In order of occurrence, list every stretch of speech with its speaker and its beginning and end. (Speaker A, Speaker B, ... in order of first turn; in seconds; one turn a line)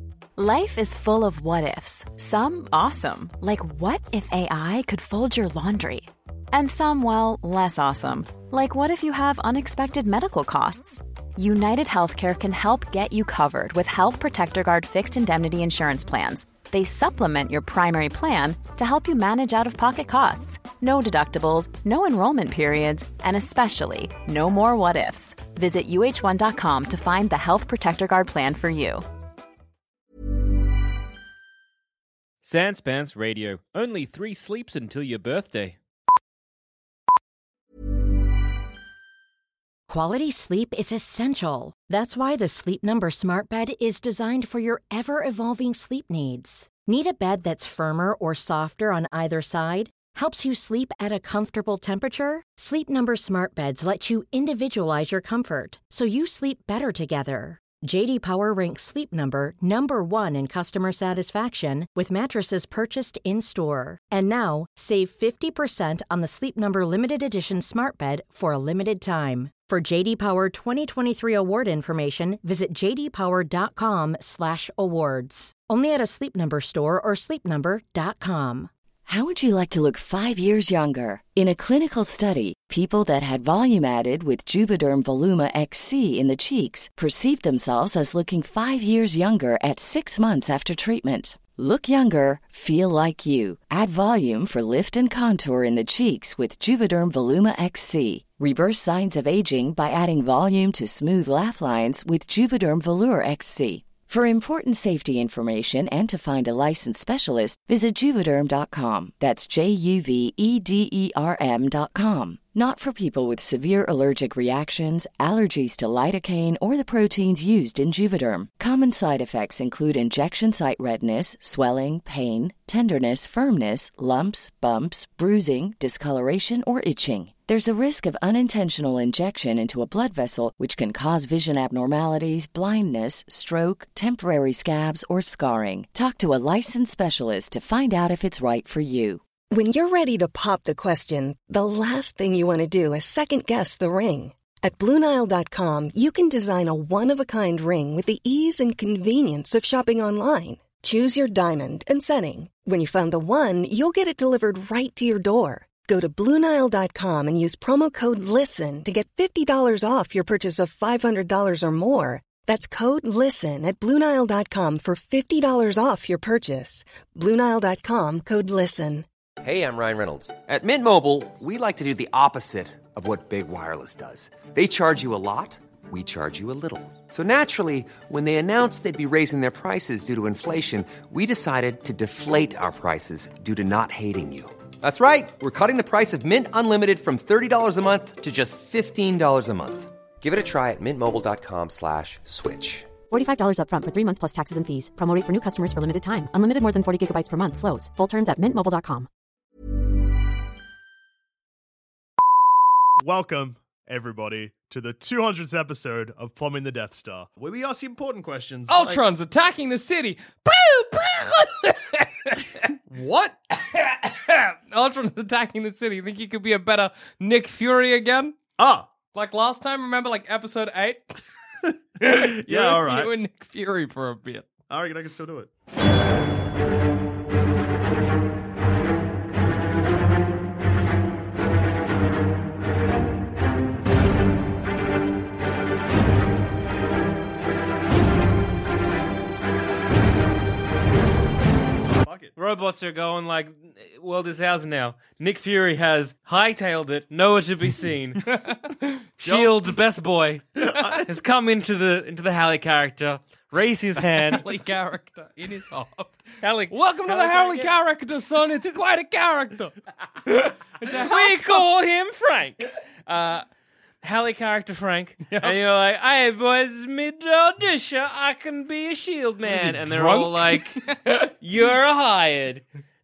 Speaker A: 0.4-29.0
Speaker B: 32.4-35.8
Speaker C: 39.9-78.7
Speaker D: 79.0-139.2
Speaker E: 139.5-169.1
Speaker F: 169.4-192.9
Speaker G: 193.1-199.1
Speaker H: 203.0-209.0
Speaker I: 208.7-212.7
Speaker H: 212.9-213.4
Speaker I: 213.7-218.4
Speaker H: 218.6-218.9
Speaker I: 219.1-221.0
Speaker I: 222.0-224.5
Speaker H: 222.1-223.1
Speaker H: 224.7-225.5
Speaker H: 241.9-242.3
Speaker B: 242.3-248.2
Speaker I: 248.2-249.0
Speaker B: 249.2-254.4
Speaker H: 249.2-249.5
Speaker I: 254.2-259.7
Speaker B: 256.4-257.7
Speaker I: 260.2-261.6
Speaker B: 260.9-263.4
Speaker B: 264.0-270.8
Speaker I: 265.3-265.6
Speaker I: 269.4-271.3
Speaker B: 271.4-272.6